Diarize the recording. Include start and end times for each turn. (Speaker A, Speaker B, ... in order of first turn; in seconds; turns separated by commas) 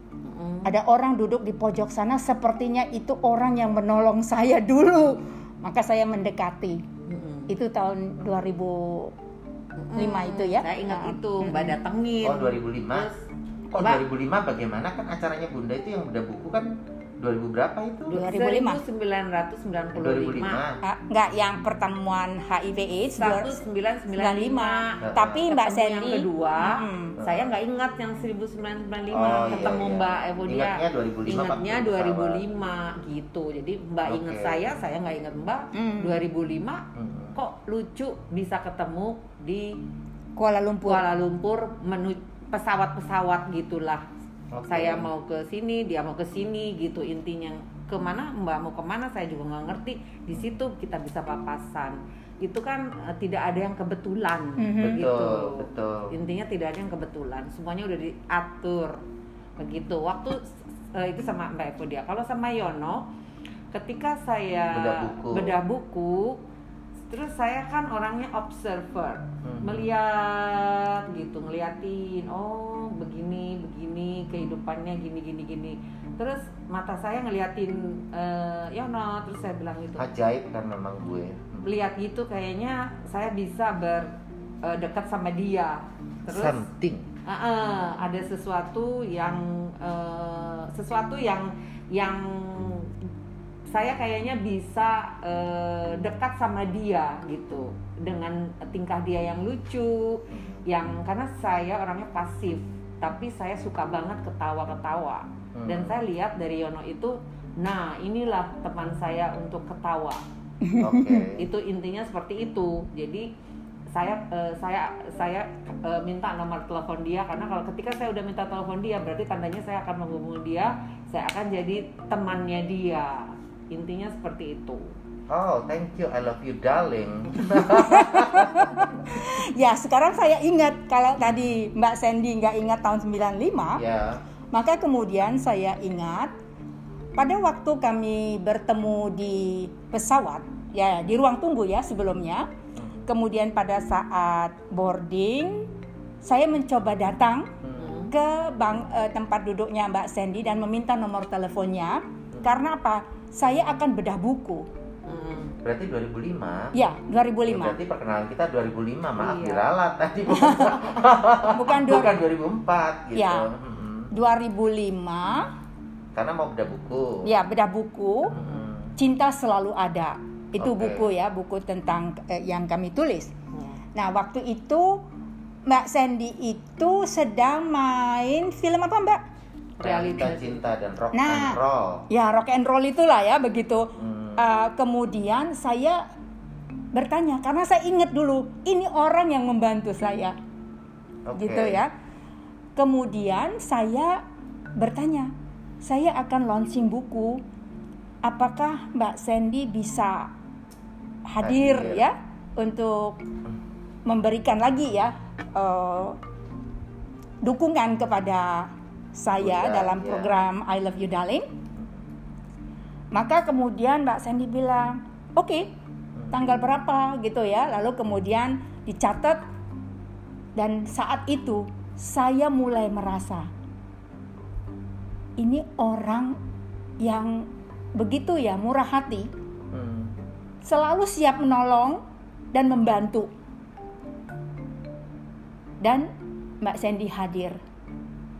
Speaker A: 0.2-0.7, Speaker B: 0.6-6.8, Speaker A: 7.1-7.5, Speaker B: 7.5-9.1, Speaker A: 9.8-13.2, Speaker B: 9.9-11.8, Speaker C: 12.2-13.1, Speaker C: 13.7-18.2, Speaker B: 13.8-14.0, Speaker A: 18.1-20.6, Speaker B: 18.1-18.8, Speaker C: 19.9-20.8, Speaker B: 20.8-23.6, Speaker A: 23.1-39.8, Speaker B: 24.1-27.2, Speaker C: 25.0-25.5, Speaker C: 27.2-27.5, Speaker C: 29.1-32.4, Speaker C: 34.1-34.7, Speaker B: 35.7-36.2, Speaker C: 37.0-37.4, Speaker B: 40.4-41.0, Speaker A: 40.9-44.0, Speaker C: 44.5-45.1, Speaker A: 44.7-59.0, Speaker B: 54.6-55.1, Speaker C: 54.8-56.1, Speaker A: 59.6-60.4, Speaker A: 60.9-63.1, Speaker A: 63.7-66.4, Speaker C: 64.7-65.6, Speaker A: 67.1-80.1, Speaker C: 69.4-69.9, Speaker C: 80.0-81.7, Speaker A: 81.6-84.1, Speaker A: 84.6-86.6, Speaker C: 86.3-87.1, Speaker A: 87.3-92.9, Speaker A: 93.7-110.2, Speaker C: 100.3-100.7, Speaker C: 105.5-106.0, Speaker B: 110.6-111.3, Speaker C: 110.8-111.5, Speaker A: 111.4-113.3, Speaker A: 114.0-124.9, Speaker C: 125.3-128.7, Speaker B: 127.5-133.8, Speaker C: 133.8-134.2, Speaker B: 134.5-136.3, Speaker B: 137.2-142.5, Speaker B: 143.1-145.7, Speaker B: 146.2-147.5, Speaker C: 147.6-147.9, Speaker A: 147.8-148.1, Speaker B: 148.1-154.7, Speaker A: 155.1-155.5, Speaker C: 155.6-156.7, Speaker B: 156.7-157.8, Speaker C: 157.5-164.1, Speaker A: 159.2-159.7, Speaker B: 160.3-162.2, Speaker B: 163.2-163.5, Speaker B: 164.1-165.5, Speaker C: 166.2-167.3, Speaker B: 167.2-168.3, Speaker C: 168.3-168.9, Speaker A: 168.4-168.7, Speaker B: 169.0-173.3, Speaker C: 170.6-171.1, Speaker A: 173.5-173.8, Speaker B: 174.0-175.0, Speaker B: 175.7-179.2, Speaker A: 179.8-180.6, Speaker C: 179.8-182.1, Speaker B: 181.1-186.0, Speaker C: 184.0-184.4, Speaker B: 186.9-190.3, Speaker C: 191.3-191.8, Speaker B: 191.4-191.9, Speaker B: 192.8-194.2, Speaker B: 194.8-197.4, Speaker B: 198.2-200.3, Speaker B: 201.3-203.2, Speaker C: 201.4-202.1, Speaker B: 204.1-206.2, Speaker B: 207.4-211.5, Speaker C: 209.4-210.3, Speaker B: 213.1-215.7, Speaker B: 216.3-219.4, Speaker B: 220.6-223.5, Speaker B: 225.4-226.4, Speaker B: 227.0-229.3, Speaker C: 229.7-230.1, Speaker B: 230.6-232.0, Speaker B: 232.5-233.3, Speaker B: 235.8-236.1, Speaker B: 236.6-237.6